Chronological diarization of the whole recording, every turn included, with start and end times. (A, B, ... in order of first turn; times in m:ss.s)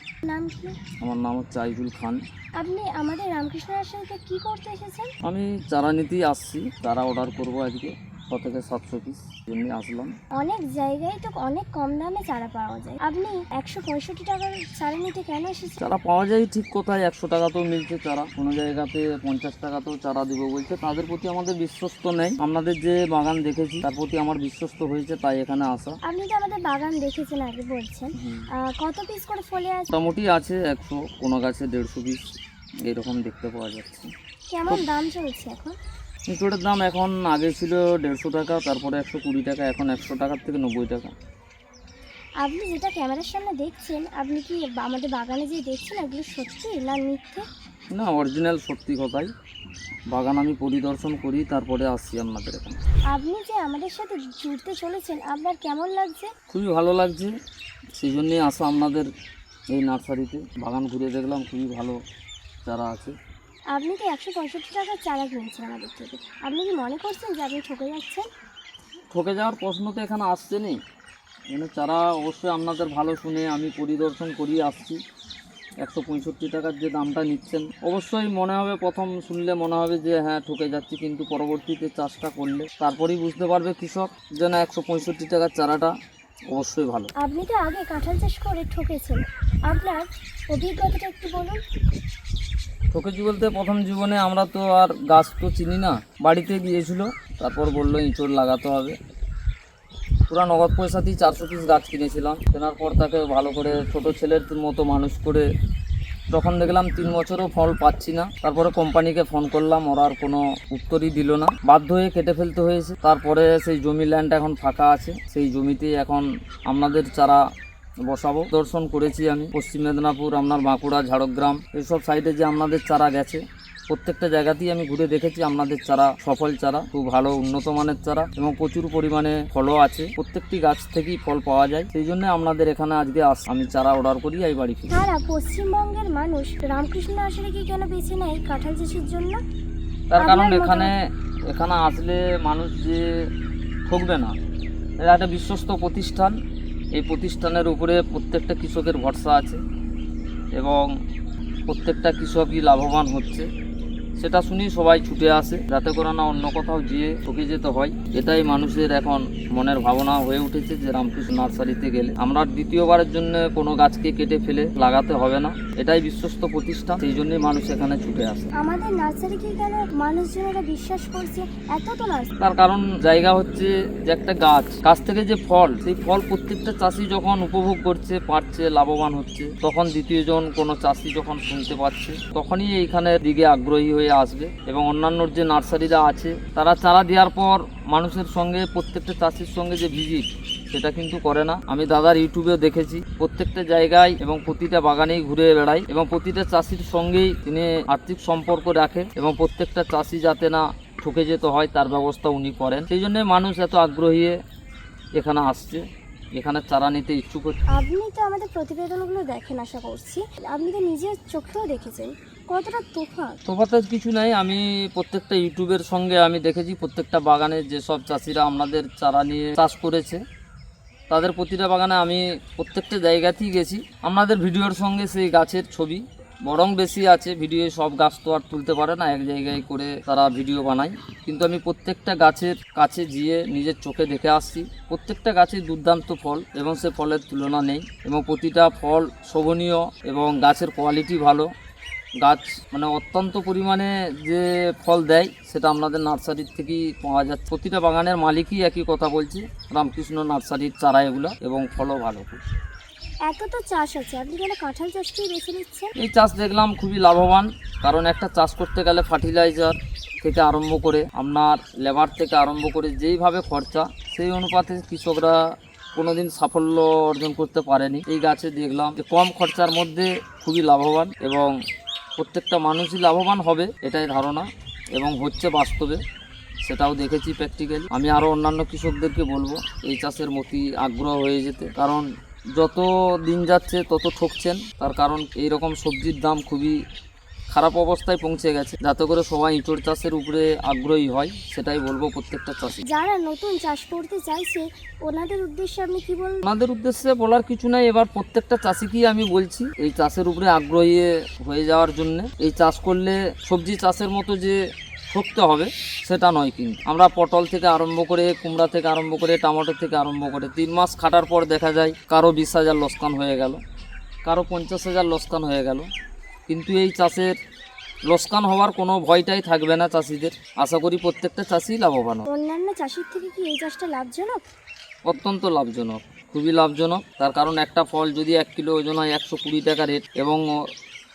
0:00.2-0:00.8 A
0:01.0-0:02.2 B
0:02.6-0:05.1 A
0:05.2-0:10.1 B
0:10.4-0:15.8 A
0:15.8-0:26.0 B
0:26.0-0:29.9 A
0:28.2-0:28.5 B
0:29.9-0:32.2 B
0:32.8-0:34.1 B
0:34.5-0:35.8 A
0:36.3-0:41.1 B
0:42.4-0:47.4 A
0:47.9-0:49.3 B
0:50.1-0:52.8 B
0:53.1-0:56.3 A
0:56.5-0:57.3 B
0:57.9-0:59.1 B
0:59.7-1:02.0 B
1:02.6-1:03.2 B
1:03.7-1:08.2 A
1:09.1-1:10.8 B
1:11.5-1:15.0 B
1:15.8-1:25.9 B
1:26.5-1:27.1 B
1:27.2-1:31.6 A
1:32.9-1:39.0 B
1:40.3-1:45.5 B
1:46.3-1:57.4 B
1:58.1-2:15.0 B
2:14.9-2:19.4 A
2:20.1-2:20.9 B
2:20.2-2:20.9 A
2:21.5-2:23.0 B
2:23.9-2:24.3 B
2:25.0-2:26.4 B
2:26.9-2:29.6 B
2:30.5-2:30.9 B
2:31.7-2:33.5 B
2:34.2-2:48.5 B
2:48.6-2:52.3 A
2:52.4-3:24.4 B
3:25.2-3:27.6 B
3:27.7-3:33.4 A
3:33.4-3:40.2 B
3:41.1-4:01.5 B
4:02.2-4:12.4 B
4:13.3-4:15.9 A
4:16.0-4:31.5 B
4:32.2-4:36.0 B
4:36.6-4:46.8 B
4:47.5-4:52.8 B
4:52.9-4:56.4 A
4:56.4-5:04.6 B
5:05.1-5:13.6 B
5:14.2-5:15.9 B
5:16.5-5:17.4 B
5:18.1-5:22.2 B
5:22.3-5:24.4 A
5:25.1-5:30.6 B